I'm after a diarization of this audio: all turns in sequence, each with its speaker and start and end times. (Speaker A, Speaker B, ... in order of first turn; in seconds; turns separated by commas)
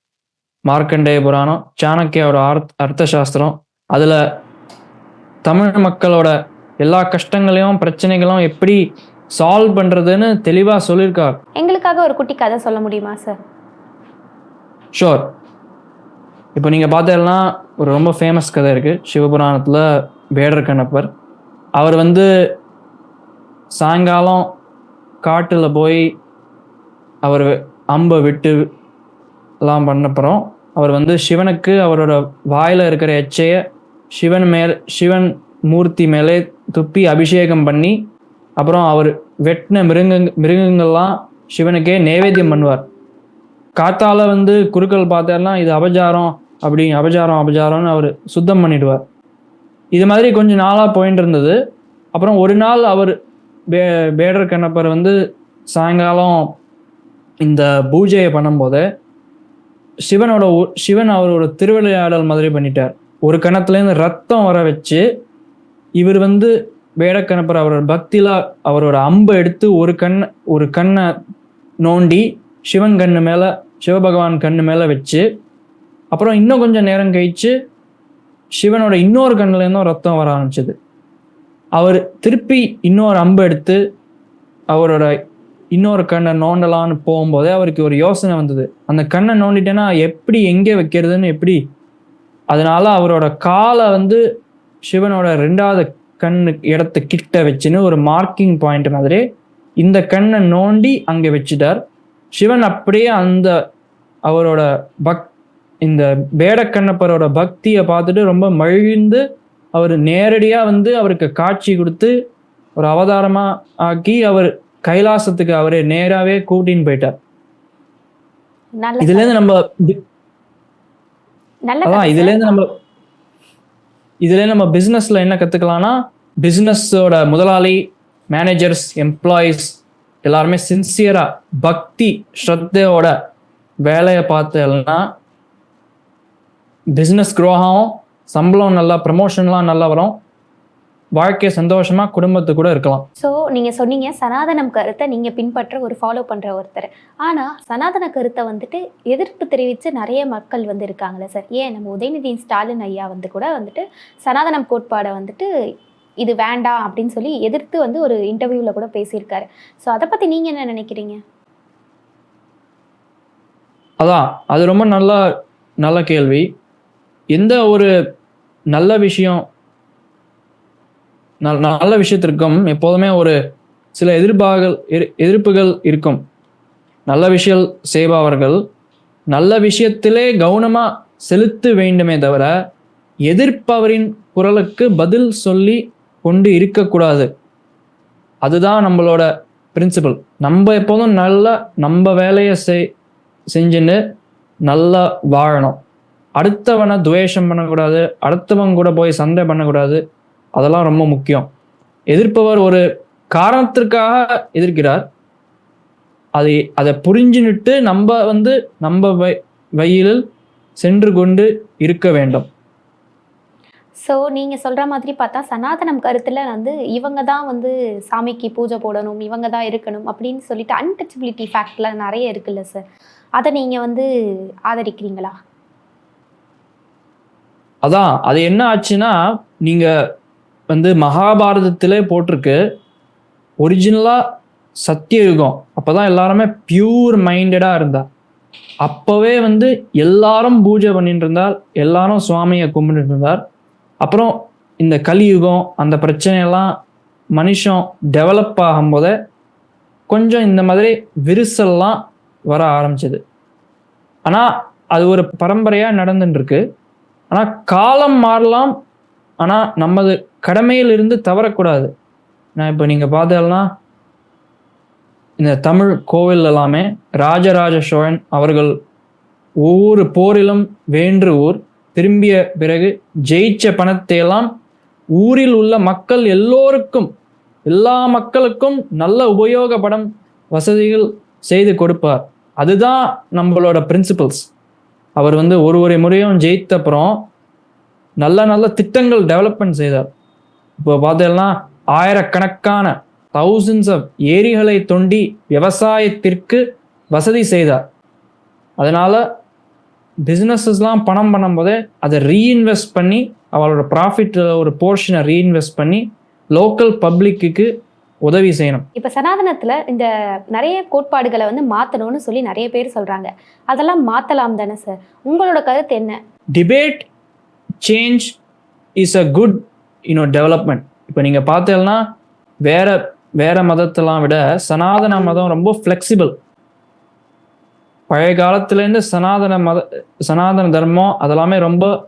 Speaker A: 0.7-4.2, Speaker A: 5.5-8.8, Speaker A: 9.3-11.4, Speaker B: 11.6-13.4, Speaker A: 14.9-15.3, Speaker A: 16.6-19.9, Speaker A: 20.4-21.1, Speaker A: 21.8-22.3, Speaker A: 23.7-24.5, Speaker A: 25.2-26.1, Speaker A: 27.2-28.7, Speaker A: 29.6-33.6, Speaker A: 34.1-38.0, Speaker A: 38.6-42.9, Speaker A: 43.8-49.0, Speaker A: 49.9-51.6, Speaker A: 52.1-53.2, Speaker A: 53.7-55.1, Speaker A: 55.7-56.6, Speaker A: 57.4-58.8, Speaker A: 60.1-65.0, Speaker A: 66.0-71.1, Speaker A: 71.8-75.2, Speaker A: 76.1-77.5, Speaker A: 78.6-80.8, Speaker A: 81.8-83.8, Speaker A: 84.7-85.2, Speaker A: 85.7-91.6, Speaker A: 92.5-94.2, Speaker A: 94.8-99.2, Speaker A: 99.8-101.8, Speaker A: 102.3-103.5, Speaker A: 104.3-105.3, Speaker A: 105.8-109.2, Speaker A: 109.7-112.1, Speaker A: 112.8-117.1, Speaker B: 118.8-119.4, Speaker A: 119.0-120.0, Speaker B: 121.7-122.5, Speaker A: 121.9-122.7, Speaker A: 124.2-133.2, Speaker A: 133.8-135.1, Speaker A: 136.9-140.2, Speaker A: 141.2-143.1, Speaker B: 143.2-155.5, Speaker B: 156.2-161.2, Speaker A: 164.0-165.2, Speaker A: 165.8-166.5, Speaker A: 167.3-167.9, Speaker A: 168.7-169.4, Speaker A: 171.4-173.4, Speaker A: 173.9-176.2, Speaker A: 177.1-178.6, Speaker A: 179.3-182.5, Speaker A: 183.3-187.3, Speaker A: 188.4-192.9, Speaker A: 193.5-194.0, Speaker A: 194.7-195.8, Speaker A: 196.4-200.0, Speaker A: 200.6-201.5, Speaker A: 202.1-205.1, Speaker A: 206.4-210.2, Speaker A: 210.8-212.5, Speaker B: 214.0-222.8, Speaker B: 223.4-224.1, Speaker B: 224.7-225.3, Speaker A: 227.8-229.9, Speaker A: 230.7-232.6, Speaker A: 233.6-234.2, Speaker A: 234.8-238.1, Speaker A: 238.8-243.4, Speaker A: 244.0-246.7, Speaker A: 247.3-249.1, Speaker A: 250.1-253.2, Speaker A: 254.3-256.6, Speaker A: 257.3-258.8, Speaker A: 259.4-261.9, Speaker A: 262.6-263.7, Speaker A: 265.4-268.8, Speaker A: 269.6-274.5, Speaker A: 275.1-277.1, Speaker A: 277.7-284.5, Speaker A: 285.2-287.3, Speaker A: 288.2-290.1, Speaker A: 290.8-297.8, Speaker A: 298.8-299.2, Speaker A: 300.3-307.7, Speaker A: 308.2-308.9, Speaker B: 309.0-316.2, Speaker A: 316.6-317.1, Speaker A: 317.8-318.4, Speaker A: 319.0-322.0, Speaker A: 322.6-326.3, Speaker A: 328.1-331.9